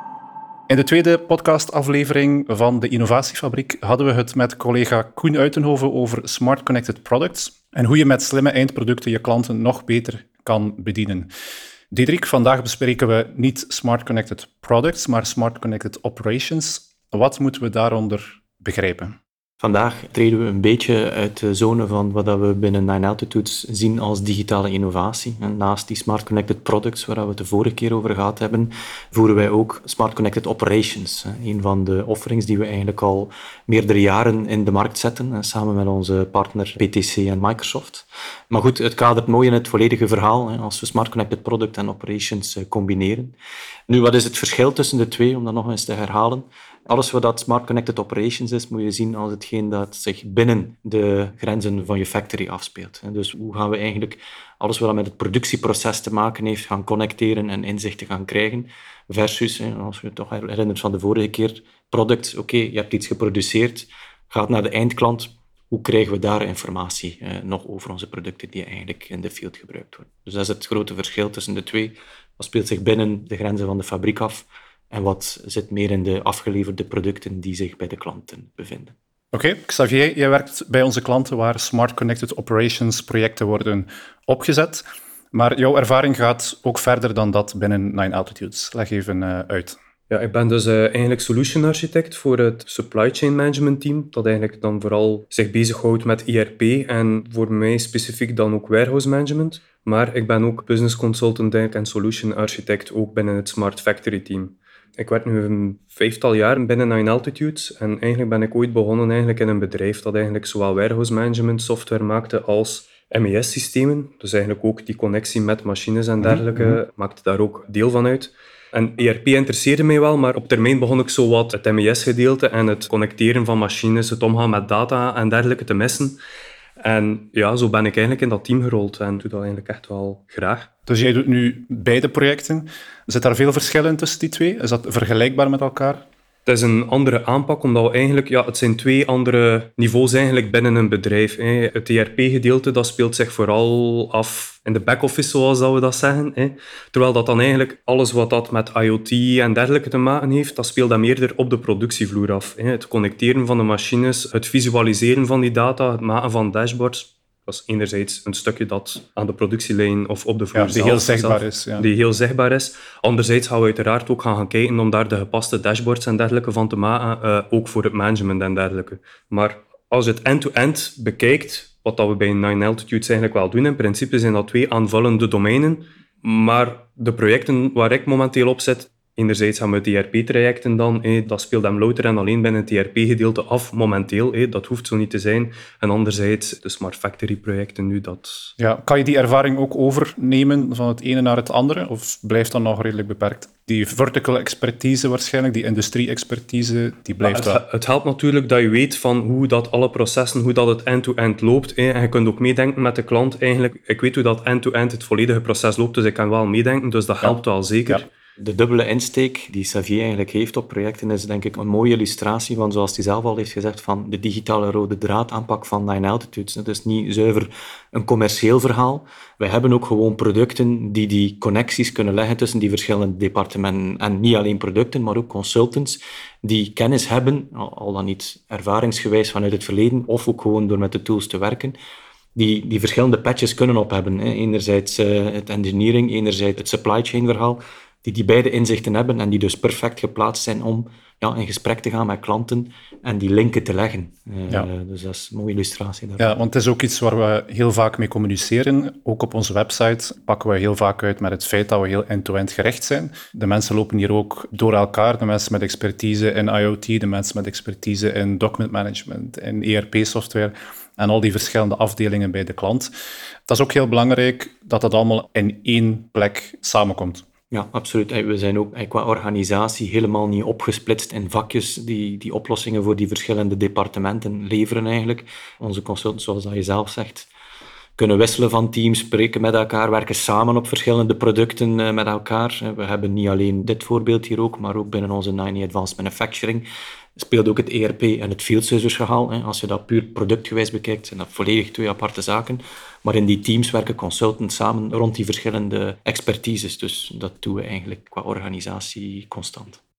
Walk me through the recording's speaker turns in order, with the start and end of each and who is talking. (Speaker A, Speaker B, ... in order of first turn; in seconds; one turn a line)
Speaker A: 0.7-11.3
Speaker A: 11.9-19.1
Speaker B: 19.6-43.3
Speaker B: 43.9-78.9
Speaker A: 79.3-89.8
Speaker C: 90.1-126.2
Speaker A: 116.2-116.8
Speaker C: 126.8-130.7
Speaker A: 130.9-136.0
Speaker C: 136.4-188.5
Speaker A: 160.5-161.9
Speaker A: 188.6-197.6
Speaker C: 197.2-208.1
Speaker B: 208.4-231.8
Speaker B: 232.3-246.3
Speaker A: 246.2-262.9
Speaker A: 263.5-267.2
Speaker B: 267.5-277.3
Speaker B: 278.0-299.8